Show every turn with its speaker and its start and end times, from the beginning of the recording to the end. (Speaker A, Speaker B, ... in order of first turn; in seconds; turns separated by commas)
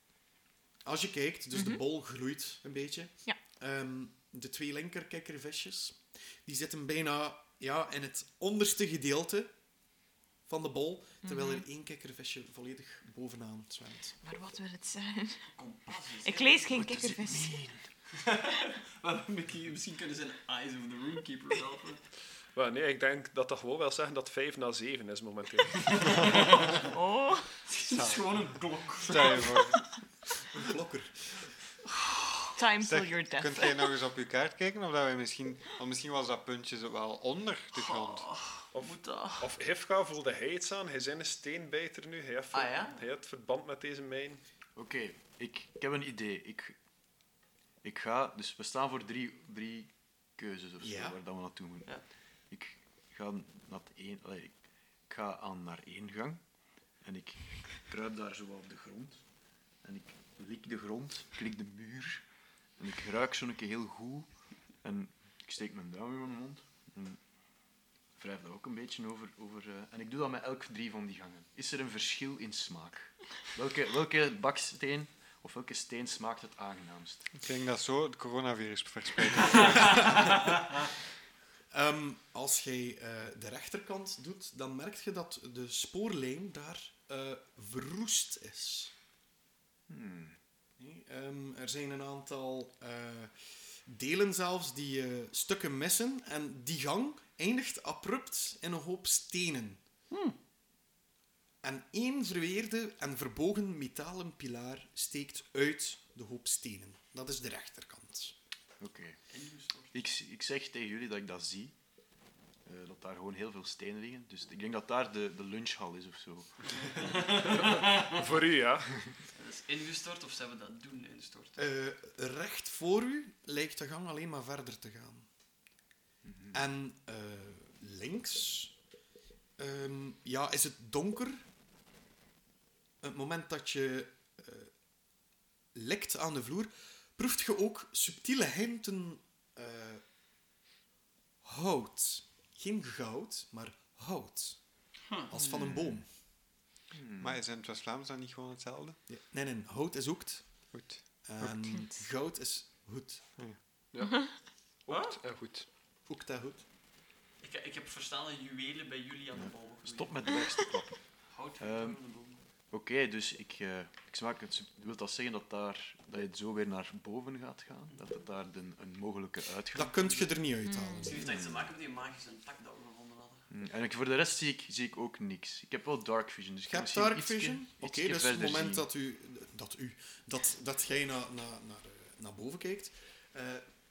Speaker A: 0.8-9.5, Speaker B: 1.5-1.8, Speaker A: 10.5-14.2, Speaker B: 11.2-11.7, Speaker B: 14.2-15.5, Speaker C: 15.6-16.7, Speaker B: 16.2-17.6, Speaker D: 16.7-17.9, Speaker C: 18.2-22.0, Speaker E: 22.6-26.4, Speaker C: 25.9-26.9, Speaker B: 26.9-27.5, Speaker C: 27.7-29.8, Speaker F: 27.8-28.5, Speaker F: 29.0-29.8, Speaker A: 30.5-31.4, Speaker B: 32.6-33.9, Speaker F: 32.8-38.3, Speaker C: 37.7-39.5, Speaker E: 38.7-44.4, Speaker C: 42.5-43.0, Speaker D: 44.8-46.8, Speaker D: 47.8-52.0, Speaker A: 50.8-51.2, Speaker D: 52.5-56.4, Speaker D: 57.0-59.2, Speaker D: 59.8-62.2, Speaker D: 62.8-64.3, Speaker D: 64.8-67.2, Speaker D: 68.2-77.3, Speaker F: 77.4-80.1, Speaker A: 81.7-88.9, Speaker D: 89.9-90.4, Speaker A: 90.8-93.3, Speaker A: 93.9-99.8, Speaker C: 100.1-100.4, Speaker A: 101.6-108.3, Speaker D: 108.8-109.2, Speaker C: 109.3-110.0, Speaker D: 109.9-111.8, Speaker D: 112.7-117.2, Speaker C: 116.9-118.2, Speaker E: 117.8-119.0, Speaker C: 119.4-121.7, Speaker A: 121.6-125.3, Speaker D: 126.2-126.6, Speaker A: 126.5-128.7, Speaker A: 129.6-131.4, Speaker A: 133.0-134.7, Speaker A: 135.7-140.0, Speaker A: 141.4-146.1, Speaker D: 146.9-147.4, Speaker F: 147.2-149.0, Speaker A: 149.1-150.7, Speaker F: 150.7-151.7, Speaker A: 151.2-153.3, Speaker E: 153.9-154.3, Speaker E: 154.9-155.7, Speaker C: 154.9-155.2, Speaker A: 156.1-156.6, Speaker C: 157.4-160.3, Speaker D: 159.4-162.1, Speaker C: 161.3-162.4, Speaker D: 162.7-170.3, Speaker A: 169.7-171.2, Speaker B: 170.7-171.1, Speaker C: 171.0-173.4, Speaker D: 171.2-171.7, Speaker D: 173.5-178.9, Speaker A: 176.7-183.7